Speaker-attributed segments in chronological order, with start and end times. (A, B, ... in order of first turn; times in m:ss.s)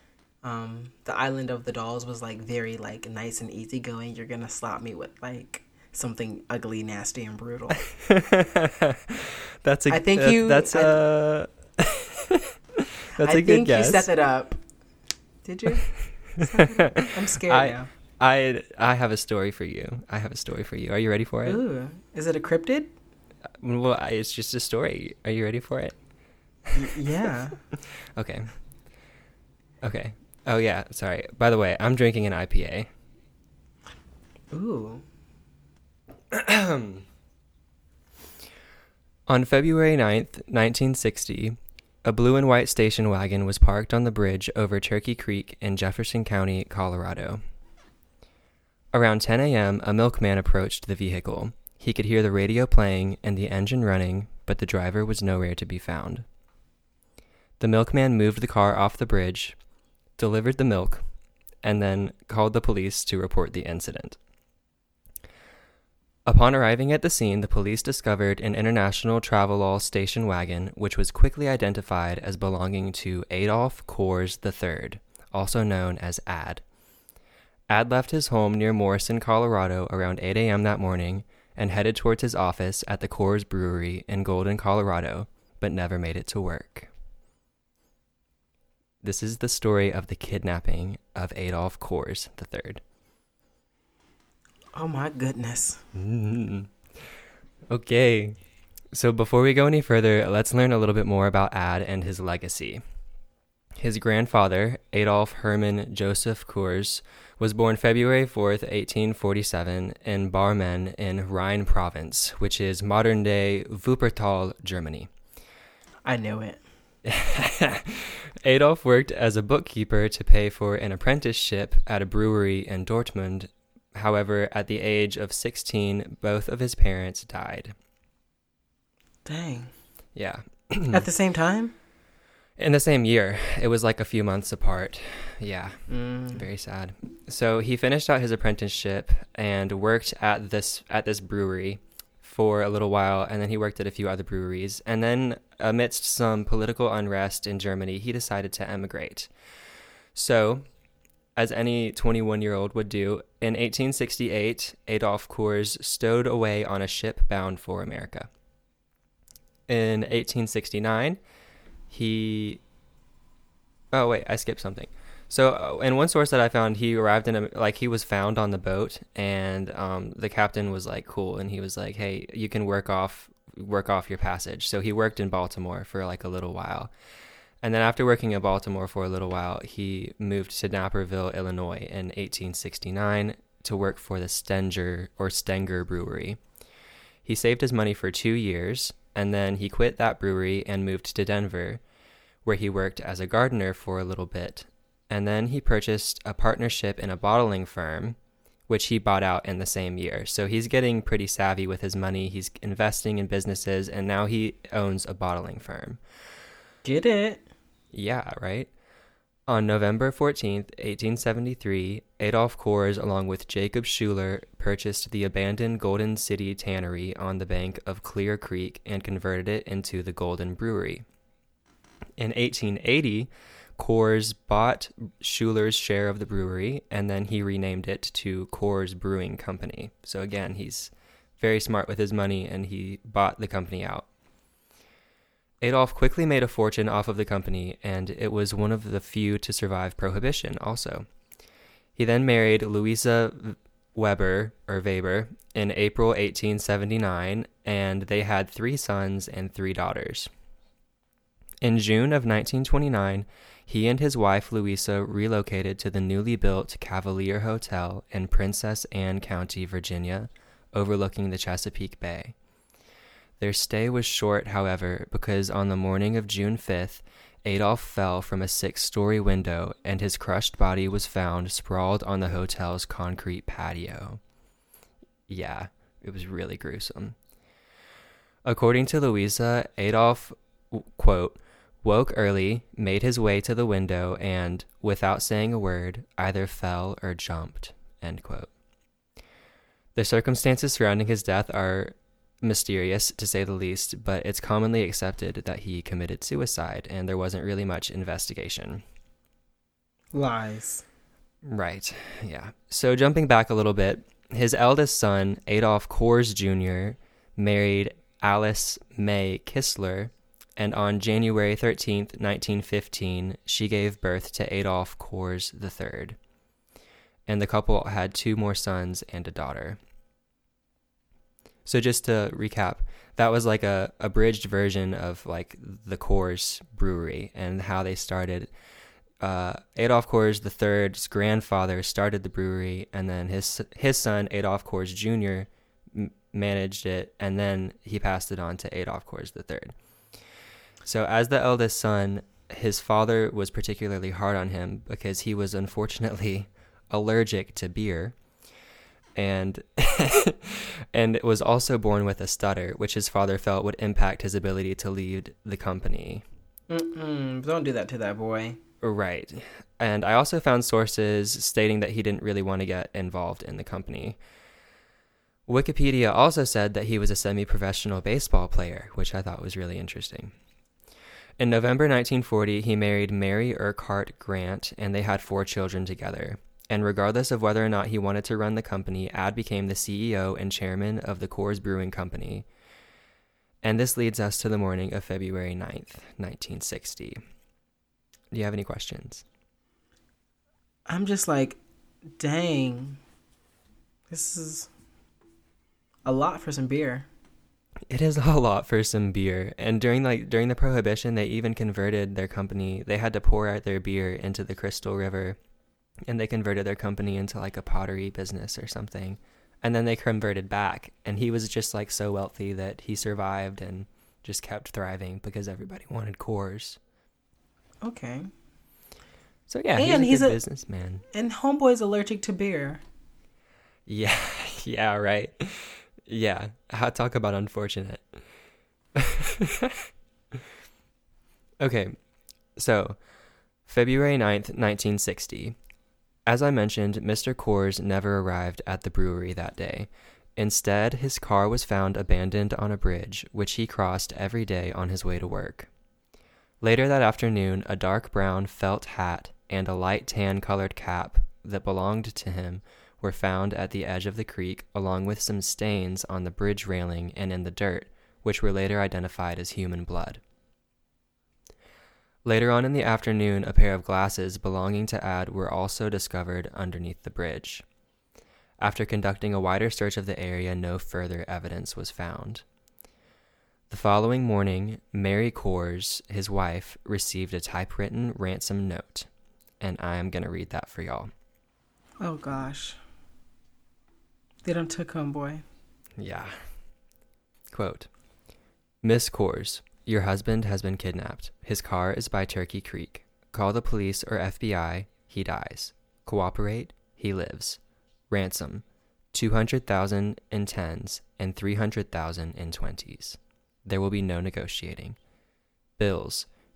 0:00.4-0:07.8 A
0:07.8-0:14.1 B
0:09.9-0:11.0 A
0:13.1-0:14.6 A
0:15.4-0:17.9 A
0:16.4-0:21.6 B
0:21.4-0:22.9 A
0:23.6-0:26.0 B
0:26.7-0:27.6 A
0:27.7-0:28.5 B
0:29.8-0:32.9 B
0:34.5-0:35.0 A
0:36.3-0:37.0 B
0:39.3-0:47.4 B
0:48.9-0:56.2 B
0:57.6-0:59.6 B
1:00.2-1:01.0 B
1:01.6-1:04.2 B
1:06.2-1:16.6 B
1:17.7-1:26.9 B
1:29.0-1:32.8 B
1:34.7-1:35.8 A
1:35.9-1:36.7 B
1:37.7-1:38.4 B
1:38.9-1:42.8 B
1:43.8-1:55.1 B
1:56.0-1:56.6 A
1:57.0-2:07.8 B
2:09.2-2:09.7 A
2:10.1-2:11.1 B
2:10.9-2:11.7 A
2:12.6-2:29.3 B
2:15.9-2:16.4 A
2:30.1-2:30.6 B
2:31.4-2:38.3 B
2:39.7-2:41.2 B
2:41.9-2:42.6 B
2:43.9-2:56.9 B
2:57.6-3:06.4 B
3:07.2-3:11.8 B
3:12.4-3:18.2 B
3:18.7-3:26.0 B
3:26.8-3:27.4 A
3:27.9-3:28.7 B
3:29.5-3:41.0 B
3:42.2-3:54.1 B
3:55.6-4:01.1 B
4:02.0-4:10.3 B
4:11.6-4:22.4 B
4:23.4-4:34.2 B
4:35.3-4:37.2 B
4:38.4-4:48.5 B
4:49.9-4:58.8 B
5:00.1-5:00.8 A
5:01.4-5:16.2 B
5:17.3-5:19.8 B
5:21.6-5:28.5 B
5:29.2-5:39.7 B
5:40.8-5:48.2 B
5:49.2-5:56.2 B
5:56.7-5:58.6 A
5:58.8-6:04.2 B
6:05.5-6:10.3 B
6:11.4-6:22.5 B
6:23.6-6:27.2 B
6:28.3-6:29.2 B
6:30.9-6:31.6 A
6:32.2-6:33.0 A
6:34.1-6:34.7 A
6:36.0-6:37.1 A
6:37.9-6:45.4 B
6:46.1-6:56.8 B
6:57.8-6:58.3 A
6:59.5-7:01.0 B
6:59.8-7:00.4 A
7:01.1-7:02.8 A
7:03.8-7:08.2 B
7:08.9-7:10.4 B
7:11.6-7:12.0 B
7:12.6-7:13.0 B
7:13.6-7:15.6 B
7:16.3-7:25.7 B
7:26.6-7:40.2 B
7:42.2-7:47.6 B
7:48.6-7:52.4 B
7:53.7-7:59.1 B
7:59.6-8:01.1 B
8:02.0-8:02.8 A
8:04.4-8:05.4 A
8:06.0-8:06.4 B
8:07.5-8:07.9 B
8:08.8-8:25.0 B
8:25.8-8:26.3 B